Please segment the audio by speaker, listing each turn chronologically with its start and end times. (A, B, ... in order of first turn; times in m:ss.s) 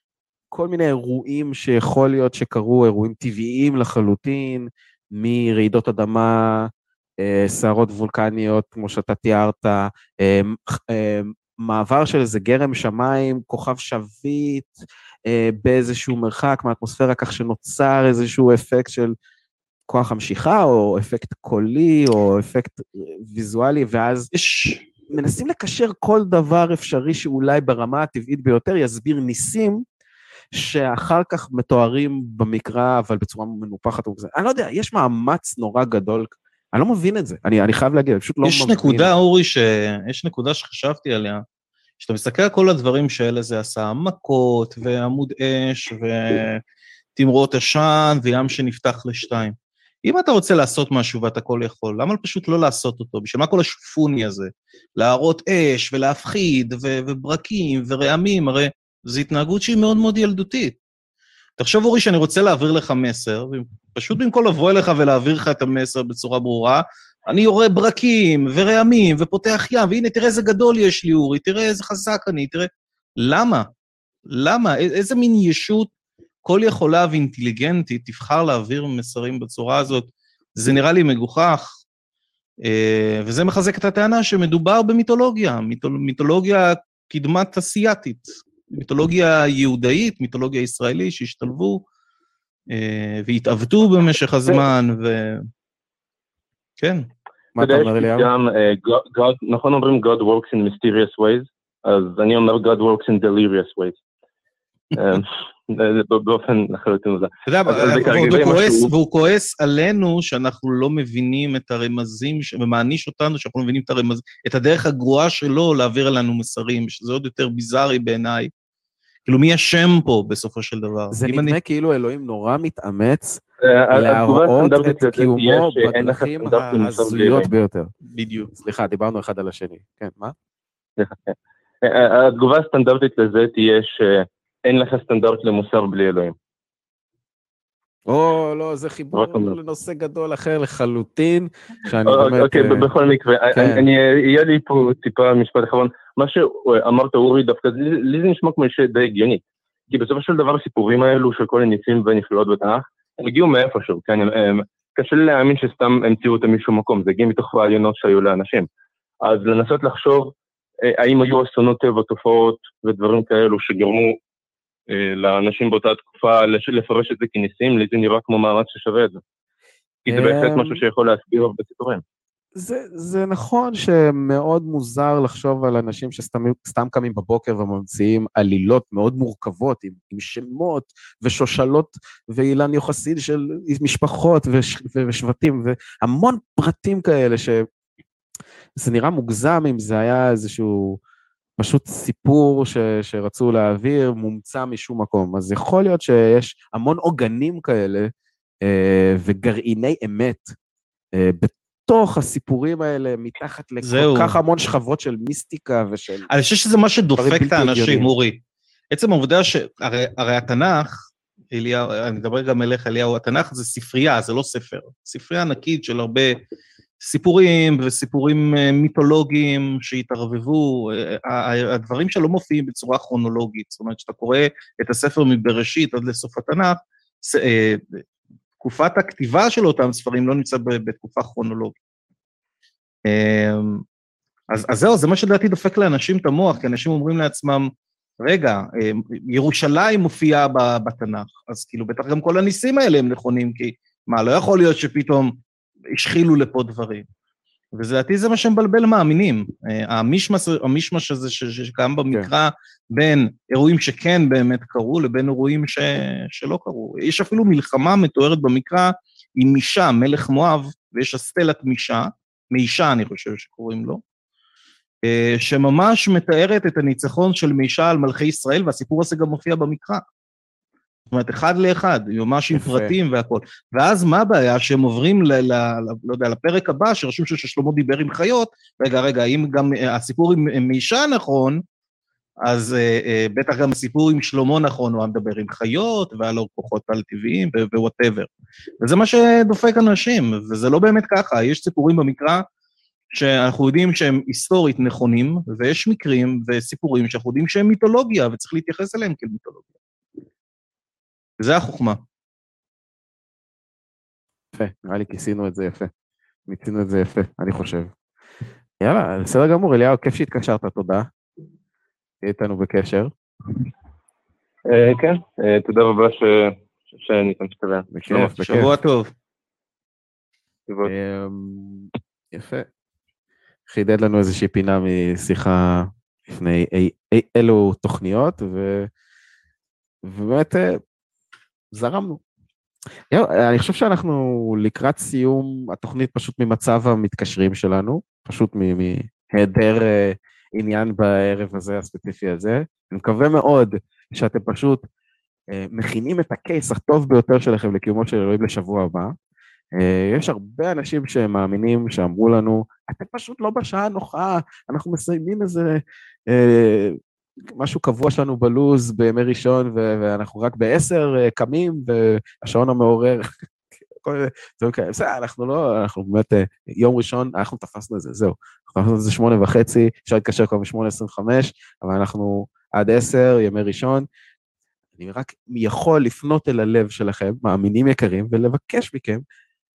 0:00.5-0:19.1 A
0:19.9-0:24.3 A
0:24.3-0:24.8 B
0:25.1-0:29.8 A
0:30.5-0:39.1 A
0:38.4-0:41.4 B
0:42.0-0:46.6 B
0:47.2-1:00.8 B
1:01.6-1:13.7 B
1:14.3-1:15.9 B
1:16.4-1:21.8 B
1:22.6-1:31.8 B
1:32.7-1:35.4 B
1:36.8-1:37.1 B
1:37.6-1:38.3 A
1:37.6-1:44.0 C
1:44.9-1:48.9 C
1:47.4-1:58.5 B
1:59.3-2:01.6 B
2:01.1-2:07.9 A
2:03.6-2:07.5 C
2:08.1-2:08.5 B
2:08.5-2:10.4 A
2:11.0-2:16.4 C
2:18.1-2:22.9 A
2:19.1-2:19.6 C
2:22.1-2:38.7 C
2:23.5-2:23.9 A
2:39.2-2:44.2 C
2:44.9-2:49.2 C
2:50.0-2:52.0 C
2:50.1-2:50.8 A
2:52.6-3:07.7 A
3:08.8-3:11.0 A
3:11.6-3:18.1 A
3:18.6-3:20.5 A
3:21.1-3:26.3 A
3:23.8-3:24.4 B
3:26.3-3:28.4 B
3:27.2-3:28.1 A
3:28.9-3:30.9 B
3:31.5-3:36.4 B
3:37.0-3:48.0 B
3:48.6-3:51.8 B
3:53.1-3:53.8 B
3:54.5-3:57.7 B
3:58.2-4:05.3 B
4:06.0-4:07.0 B
4:07.7-4:24.0 B
4:25.0-4:30.0 B
4:31.1-4:41.6 B
4:32.5-4:33.0 A
4:42.4-4:48.3 B
4:48.8-4:52.4 B
4:53.1-4:59.7 B
5:01.4-5:02.0 B
5:04.5-5:05.9 A
5:06.5-5:07.9 A
5:08.8-5:11.1 A
5:12.2-5:13.1 A
5:14.7-5:18.3 C
5:17.9-5:18.7 A
5:18.1-5:19.1 B
5:20.8-5:22.7 A
5:23.7-5:28.9 A
5:30.0-5:30.8 A
5:31.7-5:32.2 A
5:33.1-5:44.8 A
5:45.5-5:49.1 A
5:49.8-6:03.3 A
6:04.0-6:14.1 A
6:15.0-6:19.2 A